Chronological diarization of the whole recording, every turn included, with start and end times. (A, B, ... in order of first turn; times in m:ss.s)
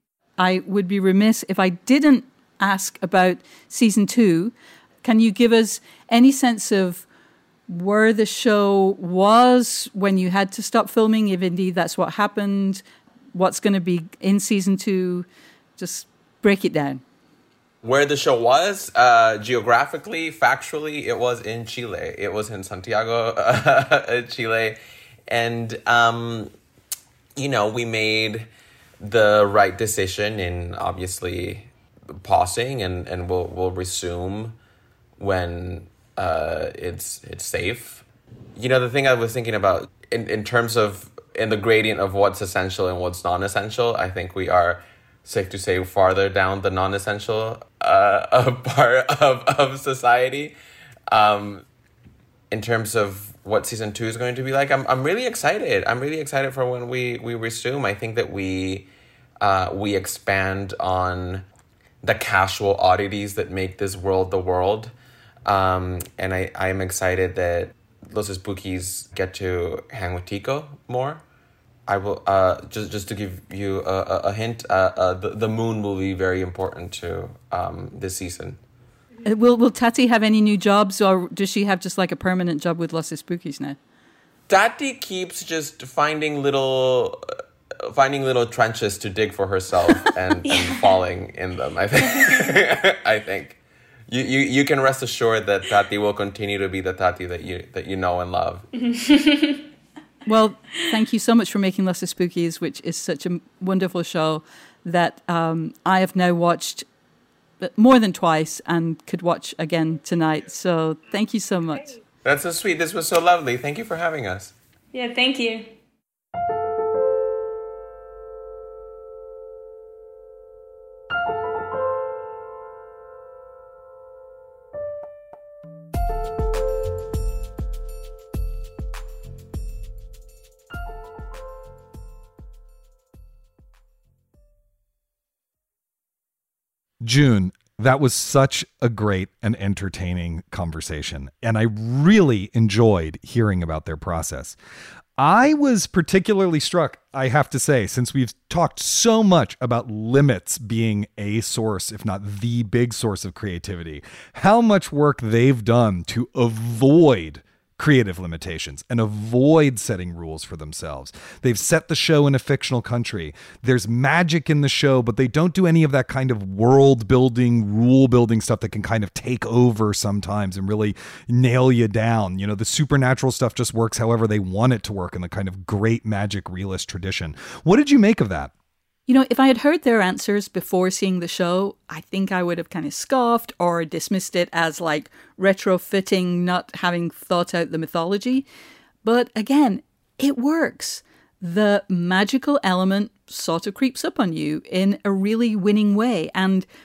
0:00.4-0:07.0 A
0:07.7-0:12.8 A
0:13.3-0:17.0 A
0:17.8-0:26.5 B
0:27.4-0:28.5 B
0:29.0-0:34.6 B
0:35.2-0:38.0 B
0:38.6-0:50.6 B
0:51.1-0:51.6 B
0:52.5-0:58.9 B
0:59.4-1:01.4 B
1:02.0-1:04.9 B
1:05.4-1:11.2 B
1:11.9-1:18.6 B
1:19.2-1:23.8 A
1:24.5-1:27.2 B
1:27.8-1:38.7 B
1:30.4-1:30.8 C
1:32.1-1:32.4 C
1:38.8-1:39.6 C
1:40.2-1:46.9 A
1:47.6-1:52.0 A
1:52.2-1:54.5 B
1:54.9-1:55.7 C
2:17.0-2:24.6 D
2:25.2-2:58.5 D
2:59.1-3:08.4 A
3:09.0-3:16.6 A